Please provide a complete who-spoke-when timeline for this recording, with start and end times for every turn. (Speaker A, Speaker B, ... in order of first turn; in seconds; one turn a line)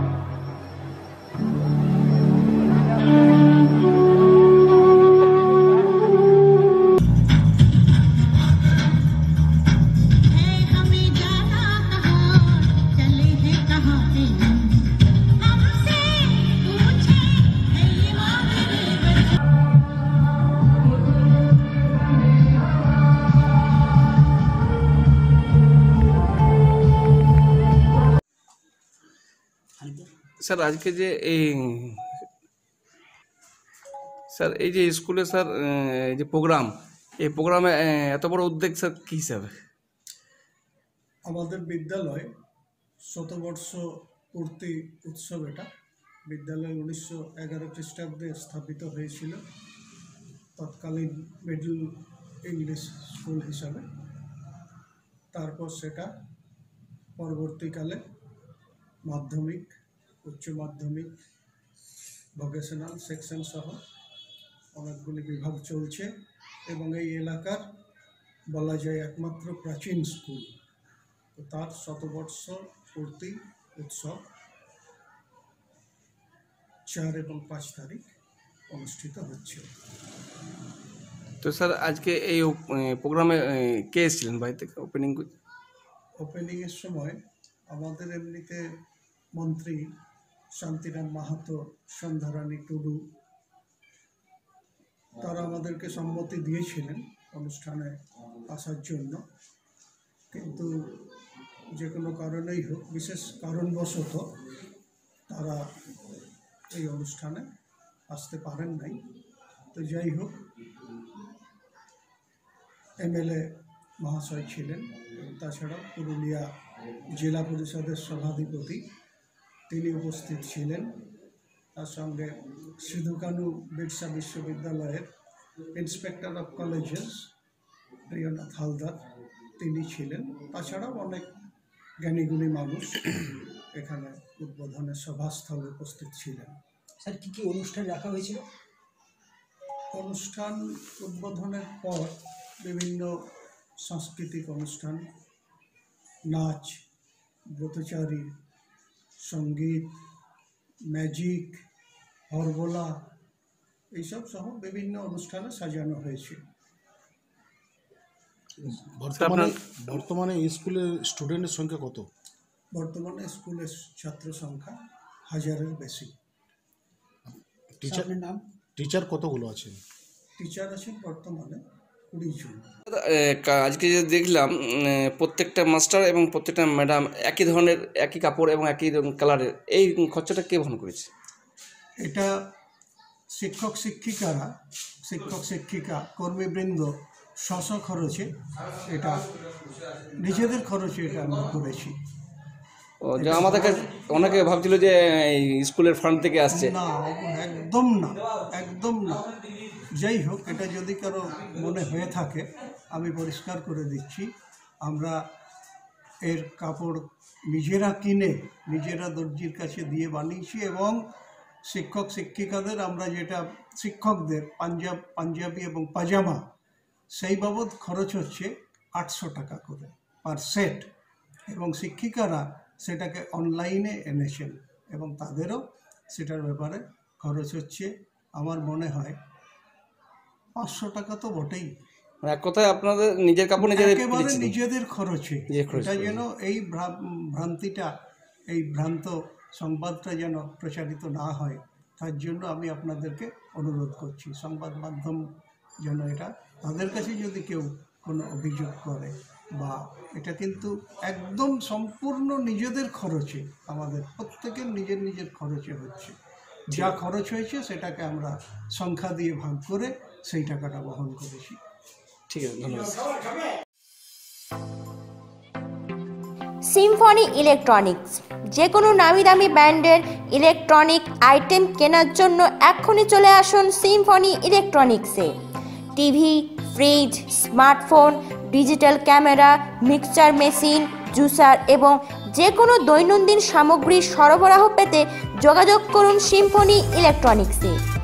Speaker A: 10.4-14.6
Speaker A: 15.6-19.0
Speaker B: 30.4-32.0
Speaker B: 34.3-39.5
Speaker C: 41.3-42.3
Speaker C: 43.1-45.7
Speaker C: 46.3-49.4
Speaker C: 50.6-53.9
Speaker C: 55.3-56.1
Speaker C: 57.2-58.0
Speaker C: 59.0-59.7
Speaker C: 60.2-61.1
Speaker C: 62.4-63.8
Speaker C: 64.8-66.1
Speaker C: 66.7-67.7
Speaker C: 68.5-70.5
Speaker C: 71.3-74.2
Speaker C: 76.9-78.0
Speaker C: 78.7-79.7
Speaker B: 81.4-85.3
Speaker C: 86.2-87.2
Speaker C: 87.7-88.6
Speaker C: 89.4-89.8
Speaker C: 90.6-93.0
Speaker C: 95.2-97.9
Speaker C: 98.5-99.2
Speaker C: 100.3-100.9
Speaker C: 101.8-104.3
Speaker C: 105.3-105.6
Speaker C: 106.7-107.5
Speaker C: 108.1-109.0
Speaker C: 109.7-110.4
Speaker C: 113.0-116.5
Speaker C: 117.2-118.9
Speaker C: 119.7-121.0
Speaker C: 121.8-125.1
Speaker C: 125.7-127.3
Speaker C: 128.1-129.0
Speaker C: 129.6-131.3
Speaker C: 132.0-136.6
Speaker D: 137.0-138.4
Speaker C: 139.9-143.1
Speaker C: 143.8-145.1
Speaker C: 146.3-146.8
Speaker C: 147.5-148.3
Speaker C: 149.2-149.9
Speaker C: 150.9-151.6
Speaker C: 152.3-152.9
Speaker C: 153.9-156.4
Speaker E: 158.6-162.1
Speaker B: 159.2-159.5
Speaker C: 162.7-164.8
Speaker C: 165.3-166.1
Speaker E: 167.8-168.1
Speaker D: 167.9-168.4
Speaker E: 168.8-169.8
Speaker C: 170.4-172.6
Speaker B: 172.9-181.1
Speaker C: 182.0-182.3
Speaker C: 183.3-184.5
Speaker C: 185.0-188.3
Speaker C: 188.8-189.3
Speaker C: 190.1-192.0
Speaker B: 193.0-196.7
Speaker C: 193.2-193.9
Speaker C: 196.5-199.3
Speaker C: 199.8-205.2
Speaker C: 206.2-211.0
Speaker C: 211.7-216.4
Speaker C: 217.1-220.9
Speaker C: 221.5-229.2
Speaker C: 230.6-231.7
Speaker B: 232.2-234.5
Speaker C: 233.6-237.9
Speaker B: 235.5-236.2
Speaker C: 238.5-245.2
Speaker C: 245.8-256.1
Speaker C: 256.7-261.6
Speaker B: 262.3-263.1
Speaker A: 266.7-275.4
Speaker A: 276.0-287.8